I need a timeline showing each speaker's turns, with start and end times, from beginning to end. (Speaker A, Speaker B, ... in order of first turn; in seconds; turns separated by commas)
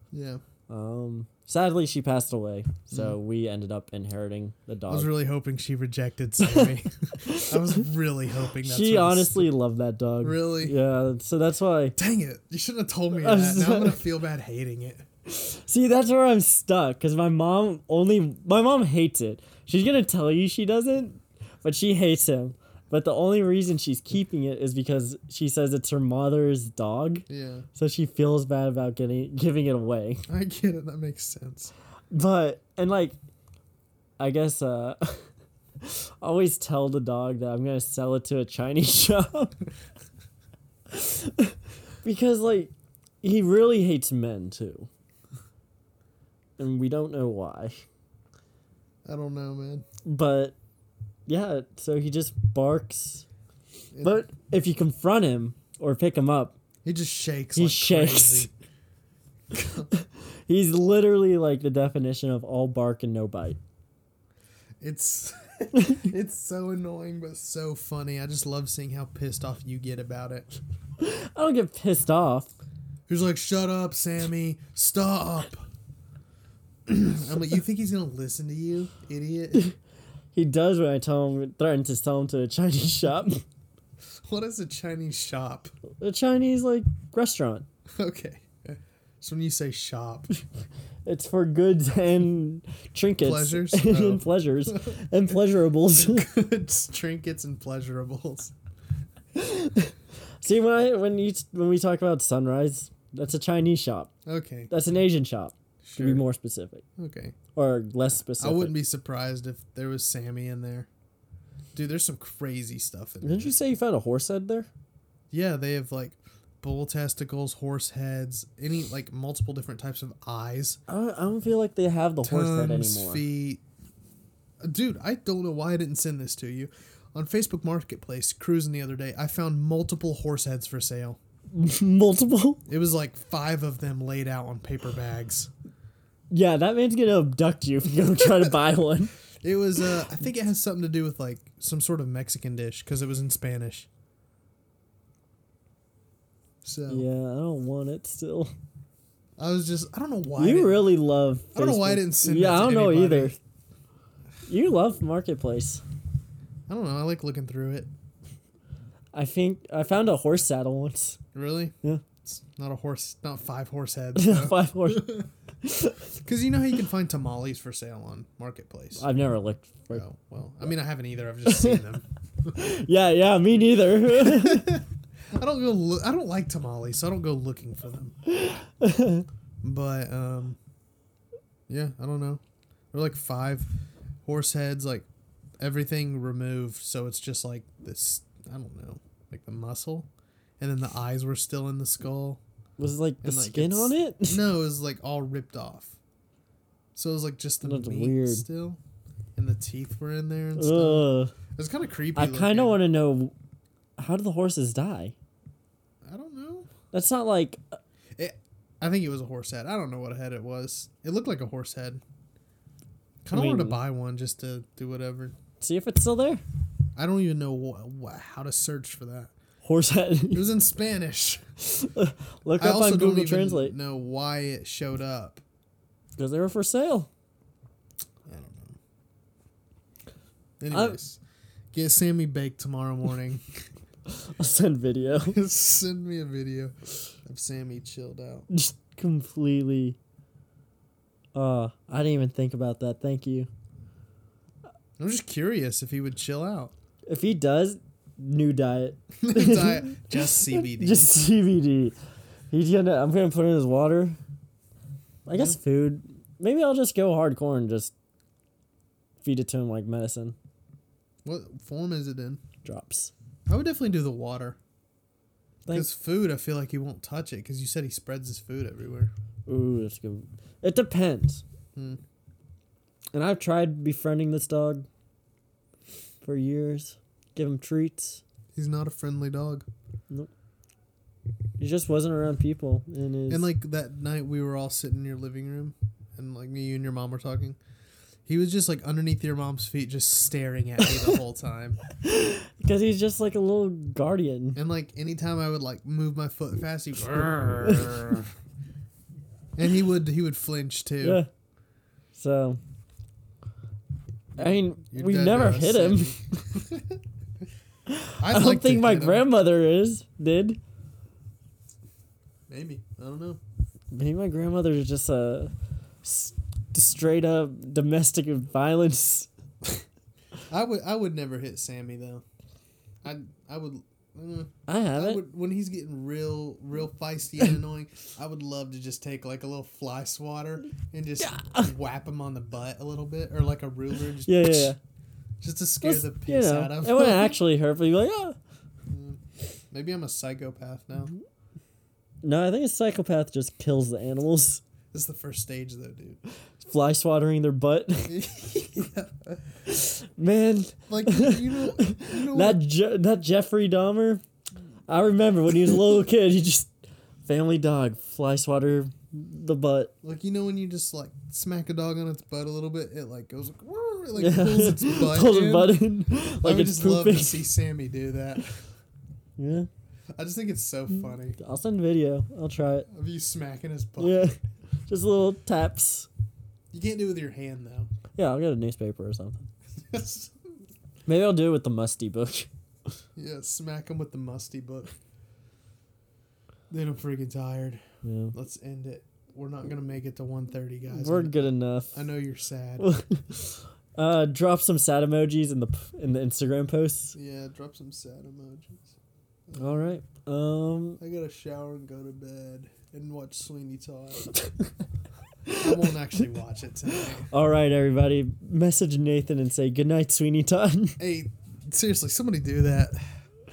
Speaker A: 0.1-0.4, Speaker B: 0.7-5.1, Speaker A: 2.9-3.2, Speaker A: 4.9-9.5, Speaker B: 6.4-7.8, Speaker B: 8.6-12.0, Speaker A: 10.2-10.7, Speaker A: 12.0-15.0, Speaker B: 13.1-14.0, Speaker B: 15.3-30.3, Speaker A: 27.3-27.6, Speaker A: 30.3-31.7, Speaker B: 32.1-33.1, Speaker B: 34.2-35.2, Speaker B: 35.8-39.5, Speaker B: 40.9-44.9, Speaker B: 46.6-47.8, Speaker A: 49.0-49.8, Speaker B: 50.0-50.5, Speaker B: 51.3-53.2, Speaker B: 54.0-56.5, Speaker A: 56.8-58.5, Speaker B: 57.5-58.5, Speaker A: 59.5-59.9, Speaker B: 59.7-63.6, Speaker A: 64.8-70.6, Speaker B: 71.0-72.5, Speaker A: 73.1-75.7, Speaker A: 76.9-79.7, Speaker B: 80.3-83.4, Speaker A: 84.2-85.7, Speaker B: 86.0-87.7, Speaker A: 88.0-90.3, Speaker B: 91.0-96.3, Speaker A: 93.2-95.3, Speaker A: 95.9-98.5, Speaker B: 99.3-104.1, Speaker A: 104.2-104.7, Speaker B: 104.7-106.8, Speaker A: 105.8-106.2, Speaker A: 107.0-107.4, Speaker B: 107.5-108.8, Speaker A: 108.4-110.9, Speaker A: 111.7-113.5, Speaker B: 113.2-114.7, Speaker A: 115.3-120.8, Speaker B: 120.9-123.2, Speaker A: 122.2-123.6, Speaker A: 124.6-131.2, Speaker B: 131.5-132.6, Speaker A: 132.7-135.5, Speaker B: 136.3-139.1, Speaker A: 139.4-143.9, Speaker A: 146.6-147.1, Speaker B: 146.9-148.5, Speaker A: 149.4-150.9, Speaker B: 150.4-153.3, Speaker A: 151.5-153.3, Speaker B: 154.5-155.8, Speaker A: 156.7-157.9, Speaker B: 159.1-161.2, Speaker A: 161.3-165.2, Speaker B: 164.2-166.0, Speaker A: 166.1-169.0, Speaker B: 169.0-170.0, Speaker A: 169.9-172.6, Speaker B: 171.5-171.8, Speaker B: 172.5-174.8, Speaker A: 174.1-178.1, Speaker B: 178.2-179.2, Speaker A: 179.6-180.6, Speaker A: 181.7-183.7, Speaker A: 184.2-185.1, Speaker A: 185.6-190.1, Speaker A: 190.6-192.4, Speaker B: 192.8-194.4, Speaker A: 193.2-196.0, Speaker A: 196.9-198.8, Speaker B: 197.6-198.4, Speaker A: 199.3-202.8, Speaker B: 200.6-201.3, Speaker B: 202.1-203.3, Speaker B: 204.0-205.1, Speaker A: 206.0-206.7, Speaker B: 206.9-207.8, Speaker A: 208.2-212.0, Speaker A: 213.2-215.3, Speaker B: 213.3-213.8, Speaker B: 215.6-216.4, Speaker A: 216.9-219.3, Speaker B: 219.6-220.5, Speaker A: 220.3-221.4, Speaker B: 221.6-223.8, Speaker A: 222.6-225.4, Speaker B: 226.2-227.1, Speaker A: 228.2-228.8, Speaker A: 230.6-231.2, Speaker B: 230.7-231.0, Speaker A: 231.7-233.4, Speaker B: 234.1-235.4, Speaker A: 235.2-236.7, Speaker A: 237.2-238.5, Speaker B: 238.5-240.0, Speaker B: 241.3-243.5, Speaker A: 245.0-246.7, Speaker B: 247.1-251.9, Speaker A: 249.2-251.1, Speaker B: 252.5-254.2, Speaker B: 255.3-257.9, Speaker A: 255.3-255.6, Speaker B: 259.2-260.4, Speaker A: 261.2-262.4, Speaker B: 262.6-263.1, Speaker A: 263.5-264.6, Speaker A: 265.7-269.1, Speaker B: 269.4-271.4, Speaker B: 273.1-274.9, Speaker B: 276.2-278.2, Speaker A: 278.5-279.6, Speaker B: 281.6-283.5, Speaker A: 283.3-287.6, Speaker A: 288.2-291.8, Speaker B: 291.9-294.6, Speaker A: 294.5-298.3, Speaker B: 297.5-298.1, Speaker A: 299.6-301.2, Speaker B: 301.0-301.3, Speaker B: 302.1-302.6, Speaker B: 304.4-306.2, Speaker A: 304.4-307.0, Speaker B: 307.9-310.6, Speaker A: 308.2-309.3, Speaker A: 312.5-313.4, Speaker B: 313.9-315.5, Speaker B: 316.0-319.3, Speaker A: 320.5-322.2, Speaker A: 323.0-334.7, Speaker B: 324.7-325.2, Speaker B: 331.2-331.7, Speaker B: 334.2-334.8, Speaker A: 335.4-337.4, Speaker B: 335.8-338.4, Speaker A: 338.9-339.2, Speaker A: 339.7-341.1, Speaker B: 342.2-344.6, Speaker A: 344.9-346.2, Speaker B: 346.6-348.1, Speaker A: 348.1-349.4, Speaker B: 349.7-354.2, Speaker A: 350.9-352.6, Speaker B: 354.9-356.7, Speaker B: 357.2-359.9, Speaker A: 360.0-368.6, Speaker B: 364.2-367.5, Speaker B: 369.4-369.7, Speaker A: 370.1-371.4, Speaker B: 371.4-372.9, Speaker A: 372.9-374.2, Speaker B: 374.0-376.1, Speaker A: 376.7-377.9, Speaker B: 378.1-379.5, Speaker A: 379.8-380.3, Speaker B: 381.1-382.5, Speaker A: 383.1-384.9, Speaker A: 386.7-392.9, Speaker B: 388.0-388.3, Speaker B: 390.9-392.0, Speaker B: 392.8-393.4, Speaker B: 393.9-397.1, Speaker A: 397.1-398.9, Speaker A: 399.5-399.9, Speaker B: 399.6-401.0, Speaker A: 401.0-404.3, Speaker B: 405.4-405.7, Speaker A: 405.6-407.3, Speaker B: 407.2-411.0, Speaker A: 411.0-413.2